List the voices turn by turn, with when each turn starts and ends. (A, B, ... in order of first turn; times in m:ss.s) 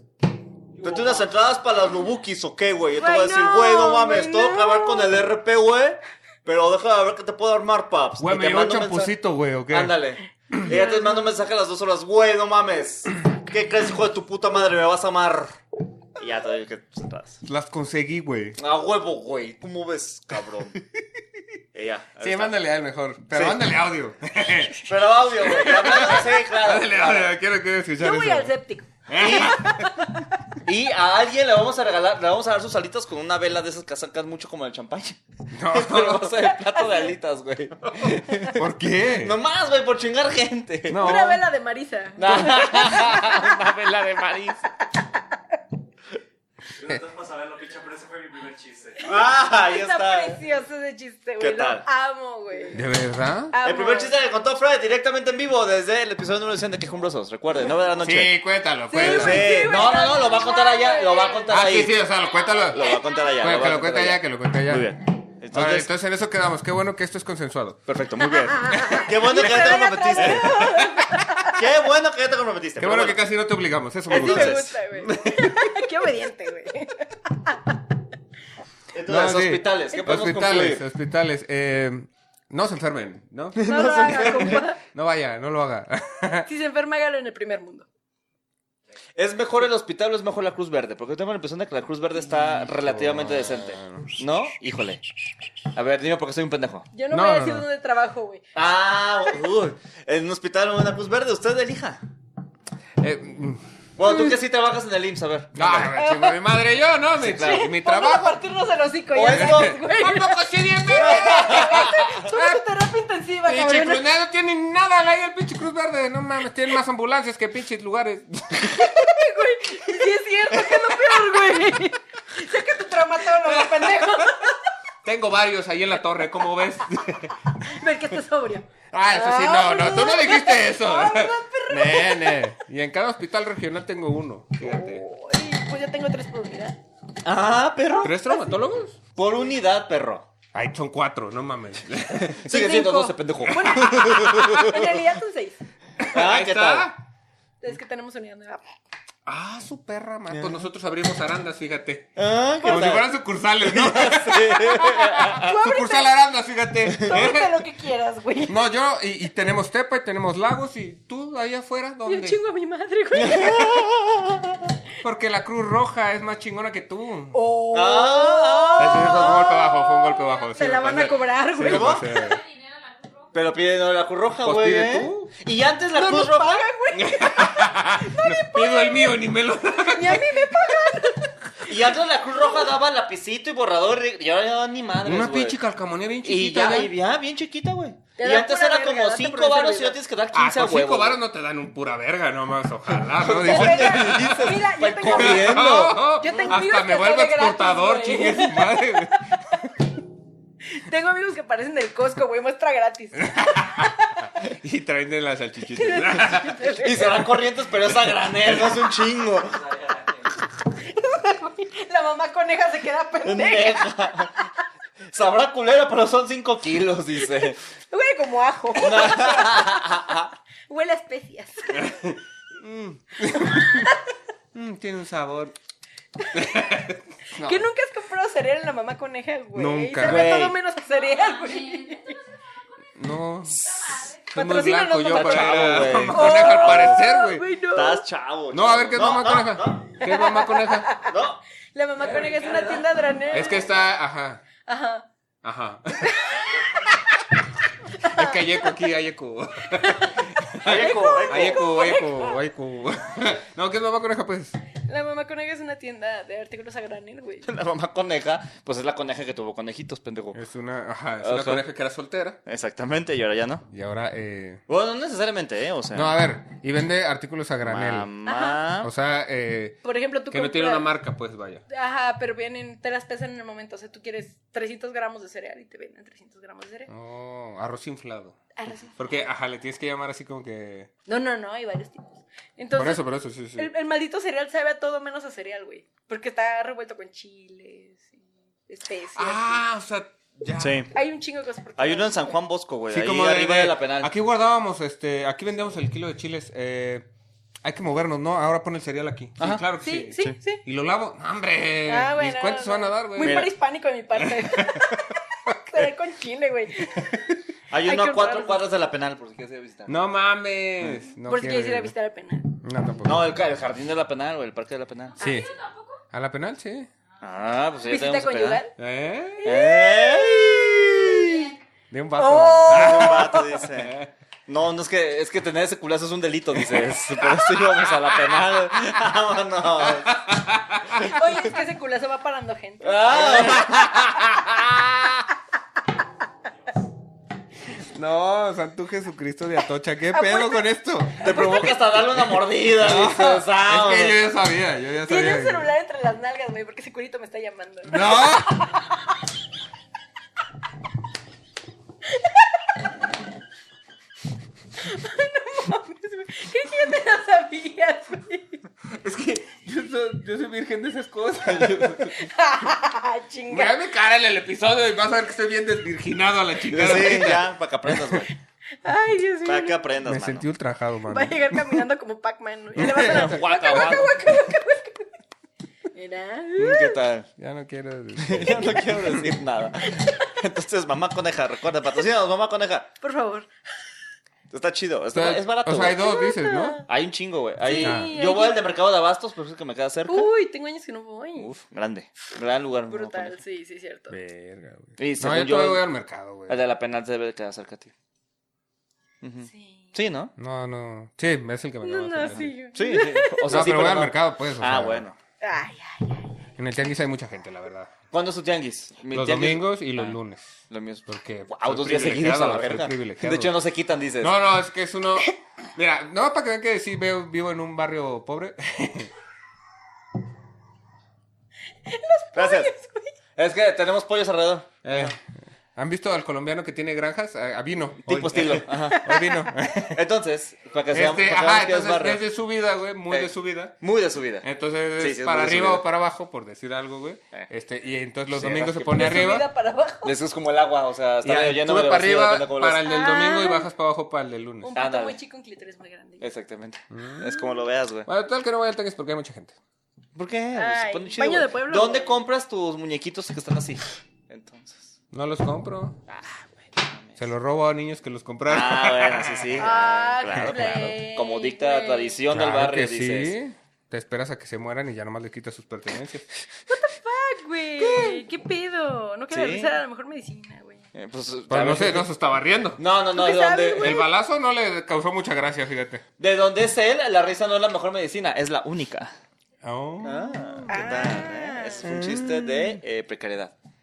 0:00.8-0:01.3 A
0:00.8-0:09.1 B
0:03.0-0:05.2 C
0:08.2-0:09.9 D
0:09.7-0:15.6 B
0:10.6-0:11.4 C
0:16.2-0:17.4 B
0:17.4-0:18.6 D
0:18.6-0:20.8 B
0:21.7-0:22.6 B
0:22.2-0:28.5 D
0:23.3-0:23.7 B
0:24.8-0:27.3 B
0:28.0-0:30.2 C
0:29.1-0:29.9 D
0:29.1-0:29.6 B
0:30.6-0:38.6 B
0:35.5-0:36.4 D
0:36.7-0:37.1 C
0:38.0-0:39.4 D
0:39.2-0:41.0 B
0:40.9-0:41.4 D
0:41.0-0:43.6 C
0:42.2-0:44.7 B
0:46.7-0:49.0 A
0:49.0-0:50.4 B
0:49.0-0:52.8 C
0:51.4-0:51.8 B
0:52.7-0:53.5 D
0:53.5-0:54.1 C
0:53.6-0:58.3 B
0:58.0-0:59.7 D
0:58.9-1:01.6 C
0:58.9-1:01.9 B
1:01.5-1:04.9 D
1:02.0-1:03.6 E
1:02.7-1:05.9 B
1:05.5-1:07.8 D
1:07.9-1:10.9 B
1:08.4-1:11.6 C
1:08.7-1:10.9 D
1:11.4-1:13.2 B
1:12.8-1:15.9 D
1:14.1-1:14.7 B
1:14.1-1:17.7 C
1:18.9-1:20.8 B
1:19.1-1:26.5 D
1:19.9-1:20.4 C
1:23.5-1:24.6 B
1:23.6-1:24.8 C
1:26.4-1:27.8 C
1:29.2-1:35.0 B
1:32.2-1:34.2 D
1:35.7-1:36.9 B
1:36.9-1:38.4 C
1:37.1-1:37.6 D
1:38.5-1:42.0 B
1:43.0-1:43.6 D
1:44.0-1:45.9 B
1:45.5-1:48.4 D
1:45.9-1:46.4 C
1:47.2-1:47.7 B
1:47.3-1:54.0 C
1:49.1-1:49.8 B
1:49.3-1:52.6 D
1:50.9-1:52.2 B
1:53.4-1:59.2 D
1:58.8-2:04.6 C
2:00.6-2:01.4 D
2:03.4-2:04.5 D
2:05.0-2:07.8 D
2:07.6-2:12.4 C
2:08.9-2:15.0 D
2:14.6-2:16.8 C
2:17.2-2:18.1 B
2:18.0-2:18.4 C
2:18.0-2:19.0 D
2:19.1-2:20.3 B
2:20.5-2:22.6 D
2:22.4-2:24.8 B
2:22.5-2:25.6 C
2:23.4-2:24.8 D
2:26.0-2:27.0 D
2:26.1-2:26.9 B
2:27.6-2:28.6 C
2:29.2-2:32.1 D
2:30.3-2:30.6 B
2:32.2-2:35.5 B
2:32.6-2:37.6 D
2:34.7-2:36.1 C
2:37.0-2:38.6 C
2:38.5-2:42.4 D
2:42.0-2:43.8 C
2:43.2-2:44.6 B
2:45.0-2:47.4 D
2:47.3-2:52.0 C
2:47.7-2:49.5 B
2:48.8-2:52.4 D
2:50.3-2:51.1 E
2:51.6-2:52.1 B
2:52.0-2:53.6 E
2:53.3-2:56.7 B
2:54.4-2:55.3 D
2:55.9-2:59.2 C
2:56.9-3:00.7 D
2:59.8-3:02.7 C
3:01.6-3:05.6 B
3:05.0-3:06.9 D
3:06.2-3:11.2 B
3:08.2-3:10.0 C
3:10.3-3:14.6 D
3:13.1-3:16.0 B
3:13.4-3:19.4 C
3:15.1-3:19.6 D
3:20.7-3:24.2 C
3:23.3-3:23.9 D
3:24.4-3:26.6 D
3:25.7-3:27.3 C
3:26.7-3:29.6 B
3:29.3-3:30.3 A
3:30.8-3:34.5 C
3:33.2-3:34.4 B
3:35.1-3:37.6 B
3:37.9-3:41.9 C
3:38.8-3:40.3 B
3:41.7-3:43.9 D
3:43.3-3:44.0 C
3:44.5-3:45.5 D
3:46.2-3:46.6 C
3:46.3-3:47.7 D
3:47.3-3:52.2 C
3:49.5-3:50.3 D
3:50.0-3:50.6 B
3:50.8-3:54.8 E
3:53.0-3:53.6 D
3:53.5-3:53.9 B
3:54.3-3:57.4 D
3:54.3-3:58.0 C
3:55.0-3:57.1 B
3:57.7-4:00.0 B
3:58.5-4:00.9 D
4:00.0-4:01.1 C
4:01.0-4:01.4 B
4:01.7-4:03.7 C
4:02.0-4:03.5 A
4:03.3-4:04.4 D
4:04.6-4:05.0 C
4:05.4-4:06.2 D
4:06.0-4:06.9 C
4:08.0-4:14.6 D
4:08.0-4:08.7 C
4:09.8-4:12.4 C
4:10.6-4:11.7 B
4:14.9-4:17.5 C
4:17.4-4:20.4 B
4:20.3-4:22.4 D
4:21.2-4:21.6 B
4:22.4-4:23.6 B
4:23.7-4:24.6 D
4:24.7-4:26.1 B
4:25.9-4:28.1 D
4:27.6-4:28.9 B
4:28.2-4:28.6 C
4:28.8-4:29.8 D
4:29.8-4:30.9 C
4:30.3-4:31.6 D
4:31.7-4:36.9 C
4:36.9-4:38.4 D
4:38.6-4:39.2 C
4:39.0-4:40.9 D
4:41.1-4:43.0 C
4:42.7-4:43.7 D
4:43.6-4:49.6 C
4:49.1-4:50.8 D
4:50.6-4:50.9 B
4:50.9-4:52.3 C
4:51.8-4:54.1 B
4:52.9-4:57.0 D
4:57.6-5:03.5 D
4:59.4-4:59.6 B
4:59.8-5:00.6 C
5:01.9-5:07.2 C
5:03.2-5:03.5 B
5:04.2-5:05.9 D
5:07.7-5:10.0 B
5:07.8-5:08.6 C
5:09.9-5:11.9 D
5:11.3-5:12.6 C
5:12.6-5:13.3 D
5:13.0-5:15.2 B
5:15.1-5:16.0 E
5:15.2-5:15.5 D
5:16.1-5:16.9 D
5:17.2-5:18.6 B
5:17.8-5:18.7 C
5:18.8-5:19.5 D
5:19.3-5:21.5 C
5:19.4-5:21.1 B
5:21.1-5:21.6 E
5:21.9-5:23.4 D
5:22.2-5:23.6 C
5:22.6-5:30.3 B
5:30.1-5:31.2 D
5:31.0-5:33.6 C
5:32.8-5:35.2 B
5:33.1-5:33.9 D
5:37.8-5:41.7 D
5:40.1-5:40.7 C
5:41.2-5:44.2 B
5:42.7-5:45.7 D
5:45.0-5:49.0 C
5:47.9-5:48.6 D
5:52.1-5:52.6 C
5:54.8-5:58.6 C
5:58.9-6:02.3 D
6:02.0-6:03.8 C
6:03.5-6:08.2 D
6:06.6-6:08.3 B
6:08.8-6:09.8 C
6:09.4-6:10.4 B
6:10.0-6:11.8 D
6:11.1-6:15.1 C
6:12.7-6:14.2 D
6:12.8-6:14.4 B
6:15.9-6:17.0 C
6:16.6-6:17.3 B
6:17.4-6:19.2 D
6:18.2-6:22.9 B
6:19.8-6:20.2 C
6:23.0-6:23.5 C
6:24.5-6:26.0 B
6:25.1-6:26.8 D
6:26.0-6:26.8 C
6:26.9-6:30.3 B
6:27.6-6:28.6 C
6:27.8-6:28.2 D
6:30.1-6:31.5 C
6:31.4-6:33.4 B
6:32.9-6:34.2 C
6:34.1-6:36.6 D
6:35.0-6:35.8 B
6:36.5-6:37.9 B
6:39.2-6:40.3 B
6:39.4-6:39.9 C
6:40.4-6:42.5 D
6:41.8-6:43.6 C
6:42.2-6:45.2 B
6:43.5-6:45.0 D
6:45.4-6:46.3 C
6:46.6-6:47.9 D
6:48.1-6:50.2 B
6:49.1-6:53.5 D
6:50.7-6:54.3 B
6:54.2-6:59.1 D
7:01.8-7:03.1 C
7:02.4-7:02.7 B
7:03.4-7:05.1 B
7:04.8-7:05.2 D
7:05.8-7:10.0 D
7:08.0-7:09.1 B
7:09.9-7:12.2 B
7:10.9-7:13.7 D
7:13.1-7:14.5 B
7:14.4-7:19.4 D
7:15.0-7:15.8 B
7:18.3-7:19.2 B
7:18.9-7:20.2 C
7:20.0-7:22.8 B
7:21.2-7:24.8 D
7:22.8-7:23.7 C
7:24.6-7:26.2 C
7:24.7-7:25.2 B
7:26.2-7:28.1 B
7:26.9-7:27.3 D
7:28.0-7:29.5 D
7:30.1-7:34.9 B
7:30.5-7:32.2 C
7:35.1-7:36.0 D
7:36.1-7:37.2 B
7:37.2-7:39.7 D
7:38.5-7:43.3 B
7:39.6-7:42.2 C
7:40.4-7:40.7 D
7:42.3-7:46.3 D
7:46.7-7:50.8 C
7:47.8-7:48.2 D
7:49.3-7:49.8 B
7:50.9-7:52.1 B
7:51.5-7:52.8 D
7:52.8-7:54.0 B
7:53.1-7:54.1 C
7:53.8-7:56.0 D
7:56.2-7:59.1 B
7:59.6-8:01.1 D
8:00.0-8:03.5 B
8:00.7-8:02.3 C
8:01.8-8:02.6 D